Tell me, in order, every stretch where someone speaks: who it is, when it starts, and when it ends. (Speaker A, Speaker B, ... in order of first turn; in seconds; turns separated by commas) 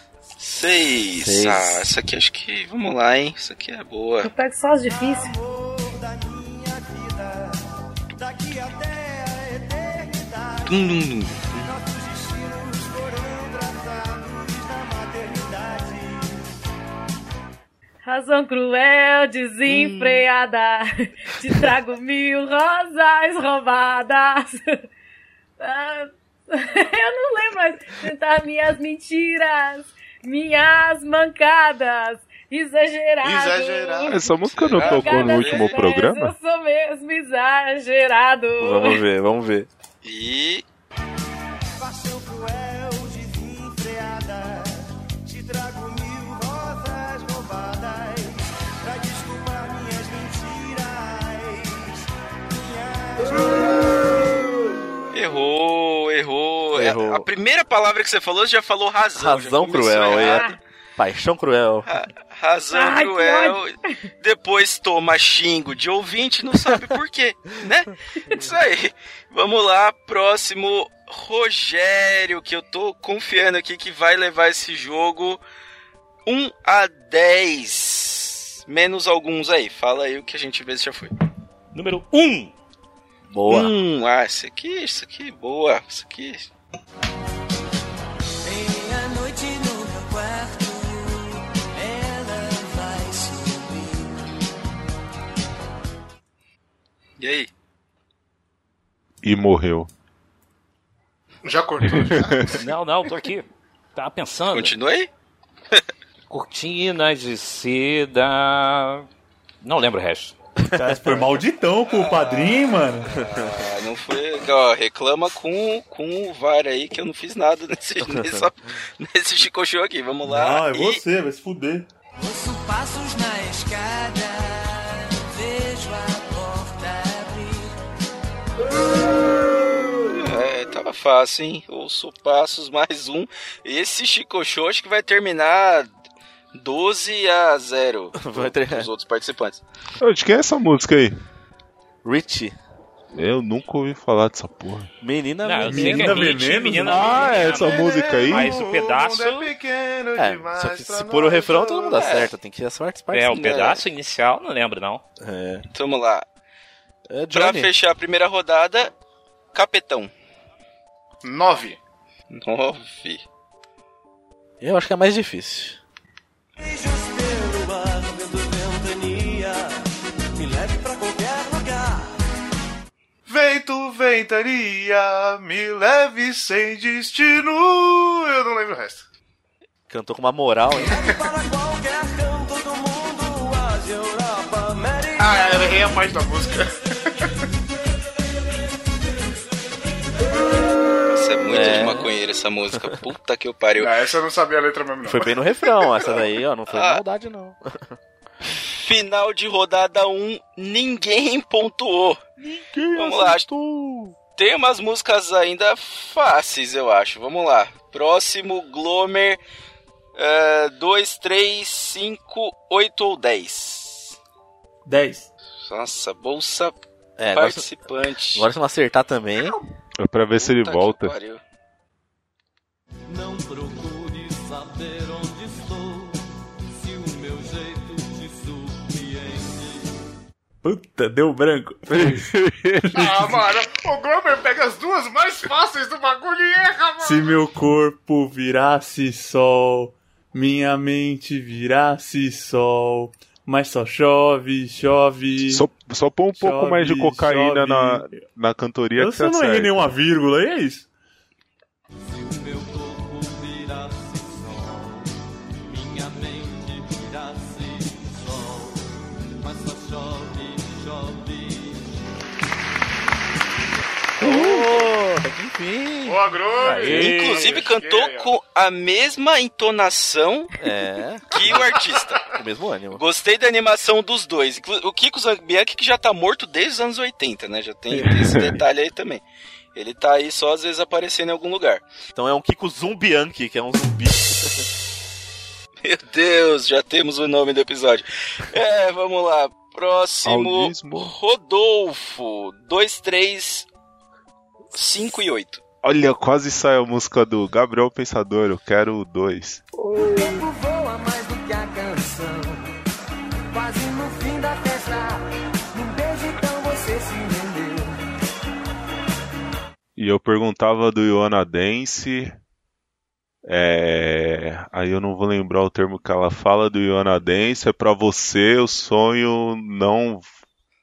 Speaker A: 0.4-4.3, Speaker B: 1.2-1.9, Speaker C: 4.2-5.3, Speaker D: 4.9-7.6, Speaker D: 8.2-11.0, Speaker A: 10.7-11.7, Speaker D: 11.6-16.4, Speaker C: 18.0-24.8, Speaker A: 19.7-20.2, Speaker C: 25.6-34.3, Speaker E: 33.2-34.2, Speaker F: 34.0-36.3, Speaker A: 34.5-35.8, Speaker C: 34.8-39.0, Speaker B: 38.6-39.7, Speaker A: 40.0-40.6, Speaker D: 41.8-54.2, Speaker A: 55.1-60.6, Speaker B: 56.8-57.2, Speaker B: 59.1-61.9, Speaker C: 60.2-60.5, Speaker A: 61.9-75.4, Speaker C: 62.7-64.0, Speaker A: 76.2-81.1, Speaker G: 81.7-82.5, Speaker B: 83.3-83.7, Speaker A: 83.5-86.5, Speaker D: 88.4-94.1, Speaker A: 97.2-97.5, Speaker F: 99.2-99.9, Speaker E: 101.4-102.6, Speaker F: 101.9-102.5, Speaker G: 102.5-104.7, Speaker A: 104.5-105.1, Speaker G: 106.3-109.0, Speaker G: 109.6-110.3, Speaker B: 110.7-111.2, Speaker H: 110.7-113.1, Speaker A: 111.9-121.0, Speaker B: 113.1-113.7, Speaker B: 118.0-118.5, Speaker H: 120.2-121.9, Speaker D: 122.2-127.8, Speaker A: 130.1-135.9, Speaker A: 136.5-139.6, Speaker B: 138.2-138.9, Speaker F: 140.0-141.2, Speaker B: 142.0-142.6, Speaker F: 143.1-144.9, Speaker B: 145.0-146.4, Speaker G: 145.4-149.5, Speaker H: 145.7-147.3, Speaker F: 146.8-148.5, Speaker E: 147.4-152.1, Speaker B: 150.2-153.4, Speaker A: 151.9-152.3, Speaker G: 153.1-155.0, Speaker A: 153.3-153.8, Speaker B: 155.2-155.6, Speaker A: 155.7-156.2, Speaker B: 157.1-157.7, Speaker A: 157.3-158.9, Speaker A: 159.5-160.1, Speaker E: 161.2-161.8, Speaker A: 162.3-163.2, Speaker B: 164.6-165.8, Speaker D: 166.6-169.7, Speaker D: 170.3-172.2, Speaker E: 173.2-179.1, Speaker B: 179.9-181.0, Speaker E: 180.9-181.2, Speaker D: 180.9-185.6, Speaker E: 185.2-187.2, Speaker A: 191.1-194.0, Speaker B: 191.5-192.1, Speaker E: 193.8-196.2, Speaker B: 195.0-197.9, Speaker A: 196.7-197.0, Speaker A: 198.6-202.2, Speaker B: 202.5-204.1, Speaker A: 202.9-203.5, Speaker A: 204.4-209.4, Speaker A: 210.2-214.2, Speaker H: 214.8-215.3, Speaker A: 215.6-216.8, Speaker B: 217.2-217.7, Speaker A: 217.3-218.5, Speaker B: 218.3-219.6, Speaker F: 220.0-221.1, Speaker A: 220.3-221.4, Speaker D: 223.1-226.2, Speaker D: 226.8-229.9, Speaker H: 230.6-232.3, Speaker F: 231.9-233.1, Speaker E: 232.9-237.4, Speaker H: 232.9-233.3, Speaker H: 237.0-245.7, Speaker F: 245.5-249.8, Speaker H: 246.3-248.2, Speaker H: 248.9-250.9, Speaker D: 252.2-255.1, Speaker D: 255.7-258.8, Speaker D: 259.4-261.8, Speaker B: 264.2-266.2, Speaker E: 266.0-268.3, Speaker G: 266.6-267.7, Speaker A: 266.8-270.5, Speaker B: 270.6-271.3, Speaker A: 271.3-272.3, Speaker E: 271.4-272.0, Speaker B: 272.3-273.0, Speaker A: 272.9-279.2, Speaker F: 277.9-278.6, Speaker A: 279.7-281.8, Speaker B: 282.1-284.6, Speaker A: 285.8-293.7, Speaker F: 290.2-291.1, Speaker A: 294.7-295.6, Speaker F: 295.8-299.6, Speaker D: 299.9-302.6, Speaker D: 303.5-308.0, Speaker F: 309.9-312.3, Speaker F: 313.4-320.3